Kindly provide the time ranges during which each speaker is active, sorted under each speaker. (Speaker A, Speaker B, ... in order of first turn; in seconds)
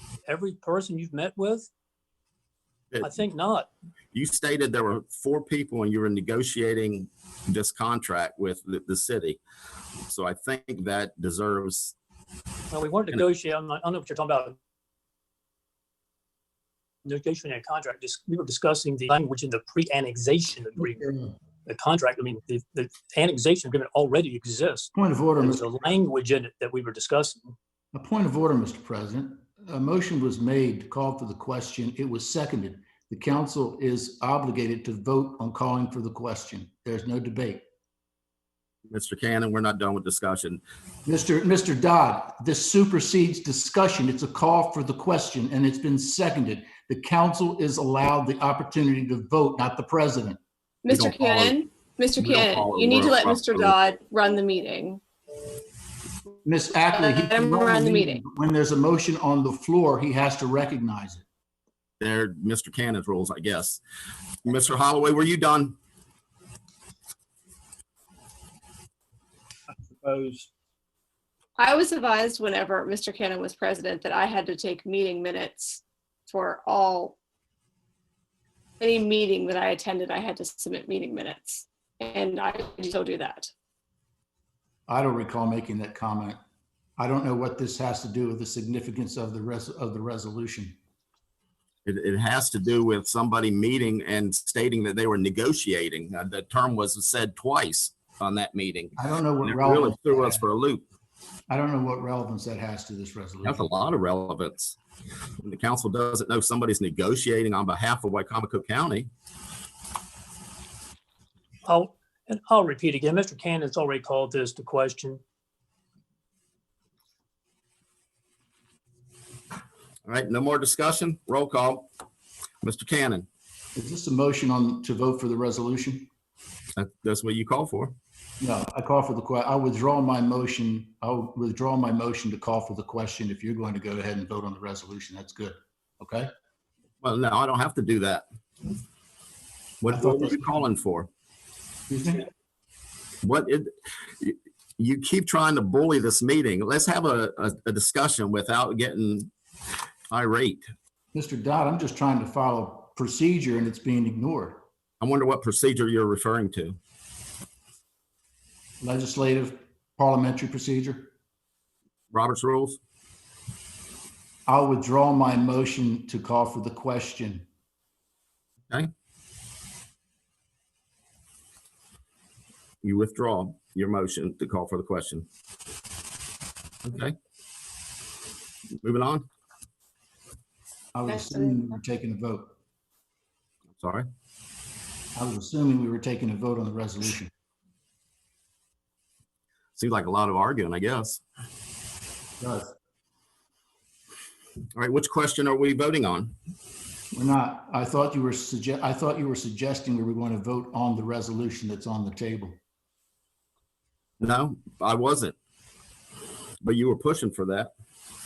Speaker A: 0.3-1.7, 3.0-3.7, 12.7-14.6, 17.0-21.1, 21.6-27.5, 111.7-115.2
Speaker B: 2.9-3.2, 4.1-9.4, 10.1-11.9, 38.9-40.6, 50.9-51.6, 52.2-53.8, 62.0-63.8, 64.4-65.8, 91.8-100.8, 103.4-104.8, 105.4-109.1, 120.0-121.9, 122.6-123.2, 126.8-127.9, 137.0-138.2, 139.8-141.1, 143.2-143.7, 144.2-149.3, 150.1-150.7, 155.0-156.8, 162.1-162.8, 172.8-175.2, 176.8-177.2, 178.8-179.2, 183.8-184.1, 189.8-191.2, 194.8-196.3, 204.2-205.3, 206.6-207.7
Speaker C: 24.9-25.6, 27.9-37.6, 41.0-50.4, 56.5-61.2, 69.9-70.5, 84.9-86.4, 87.0-90.8, 99.0-100.4, 101.5-103.7, 123.8-126.1, 128.4-136.3, 139.9-140.6, 141.9-142.2, 151.1-154.6, 158.8-161.1, 164.5-167.5, 180.9-182.5, 185.2-187.3, 192.4-192.7, 197.1-202.6
Speaker D: 50.8-55.0, 56.9-58.2, 71.6-77.2, 78.8-83.5